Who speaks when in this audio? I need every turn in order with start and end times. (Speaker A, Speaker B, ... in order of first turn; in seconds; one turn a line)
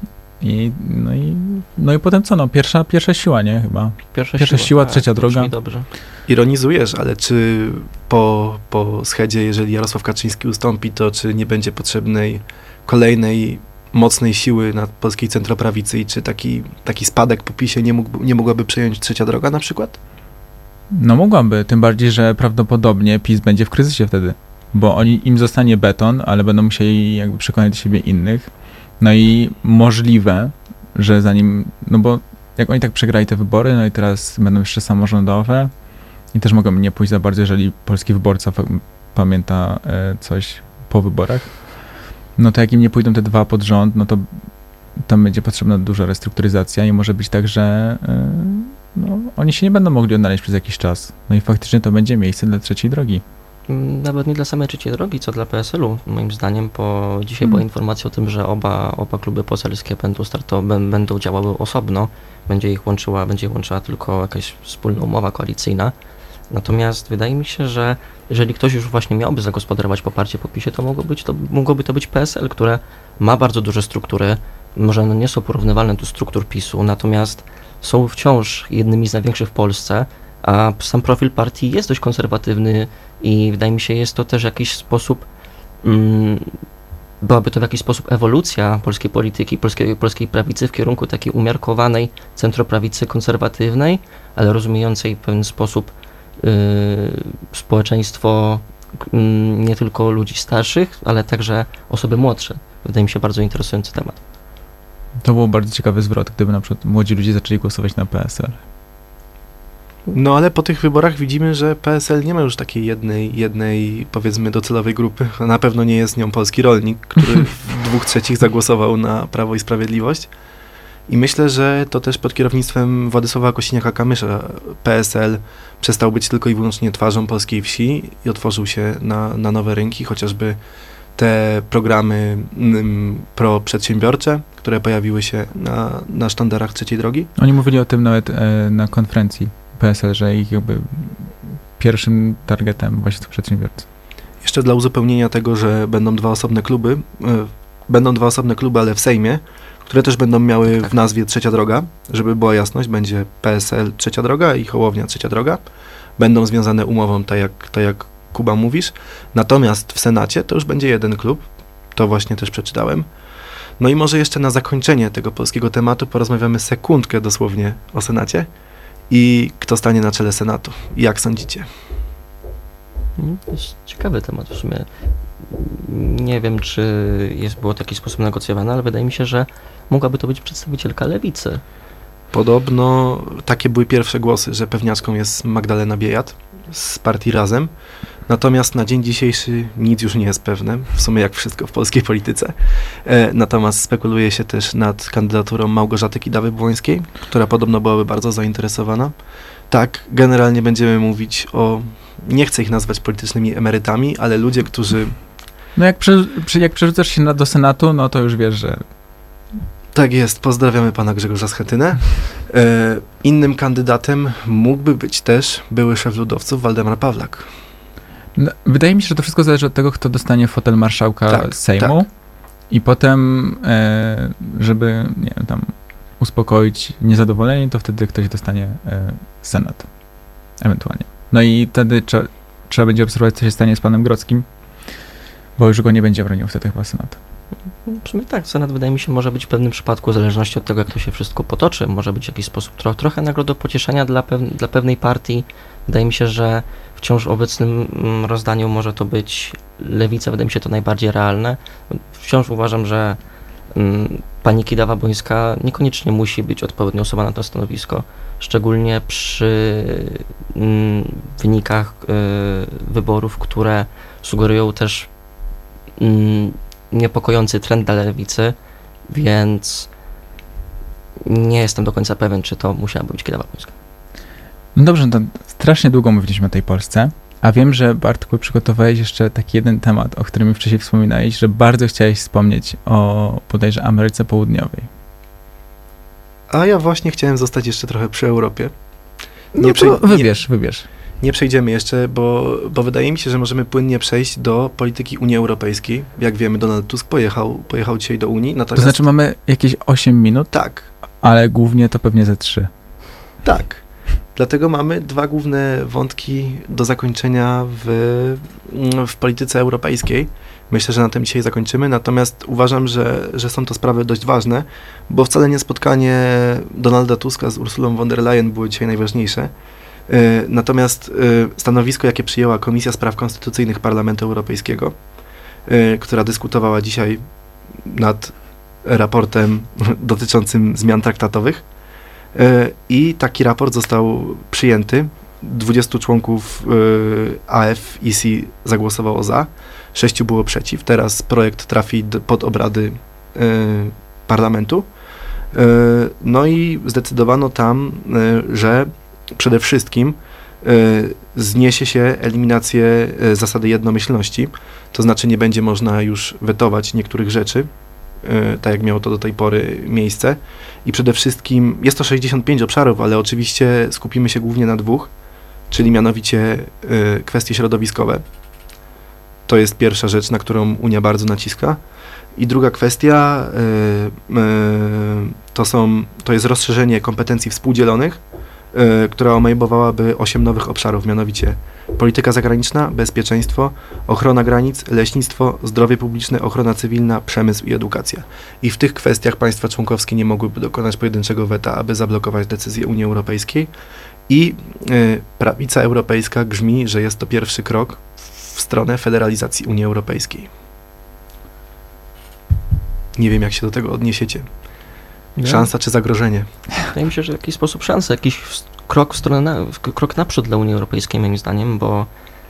Speaker A: 0.4-5.5
Speaker B: 4.1-5.9
Speaker C: 6.3-20.0
Speaker A: 20.9-35.8
Speaker A: 36.3-41.8
Speaker A: 42.4-44.3
Speaker A: 45.0-53.2
Speaker B: 53.7-65.9
Speaker B: 66.5-85.3
Speaker B: 85.8-86.6
Speaker B: 87.2-104.2
Speaker A: 105.2-108.6
Speaker C: 110.1-120.3
Speaker C: 121.1-130.6
Speaker C: 131.2-137.3
Speaker A: 137.4-143.9
Speaker C: 144.4-155.6
Speaker C: 156.2-163.1
Speaker C: 163.8-168.5
Speaker C: 169.1-171.7
Speaker B: 173.2-174.9
Speaker B: 175.4-181.6
Speaker C: 182.3-187.7
Speaker C: 188.3-199.2
Speaker C: 199.7-205.2
Speaker A: 205.8-208.8
Speaker C: 209.9-217.5
Speaker A: 218.4-222.1
Speaker C: 221.3-222.0
Speaker A: 222.7-229.9
Speaker A: 230.6-234.4
Speaker A: 235.6-237.2
Speaker B: 237.8-253.2
Speaker B: 253.7-265.1
Speaker B: 266.0-268.6
Speaker B: 269.1-269.9
Speaker B: 271.2-273.7
Speaker A: 274.8-284.9
Speaker C: 286.5-288.7
Speaker C: 289.5-290.3
Speaker A: 289.6-290.9
Speaker C: 291.2-299.0
Speaker A: 298.8-300.5
Speaker C: 300.5-300.9
Speaker A: 301.2-302.7
Speaker C: 303.4-303.8
Speaker C: 304.4-319.5
Speaker C: 320.1-325.0
Speaker C: 325.7-327.2
Speaker C: 327.8-331.6
Speaker C: 332.4-344.9
Speaker C: 345.5-357.7
Speaker C: 358.2-365.1
Speaker C: 365.7-368.2
Speaker C: 369.5-371.8
Speaker C: 372.4-378.2
Speaker C: 378.7-393.7
Speaker C: 394.3-400.5
Speaker C: 403.1-404.6
Speaker B: 405.4-405.7
Speaker C: 405.4-406.5
Speaker B: 406.9-412.1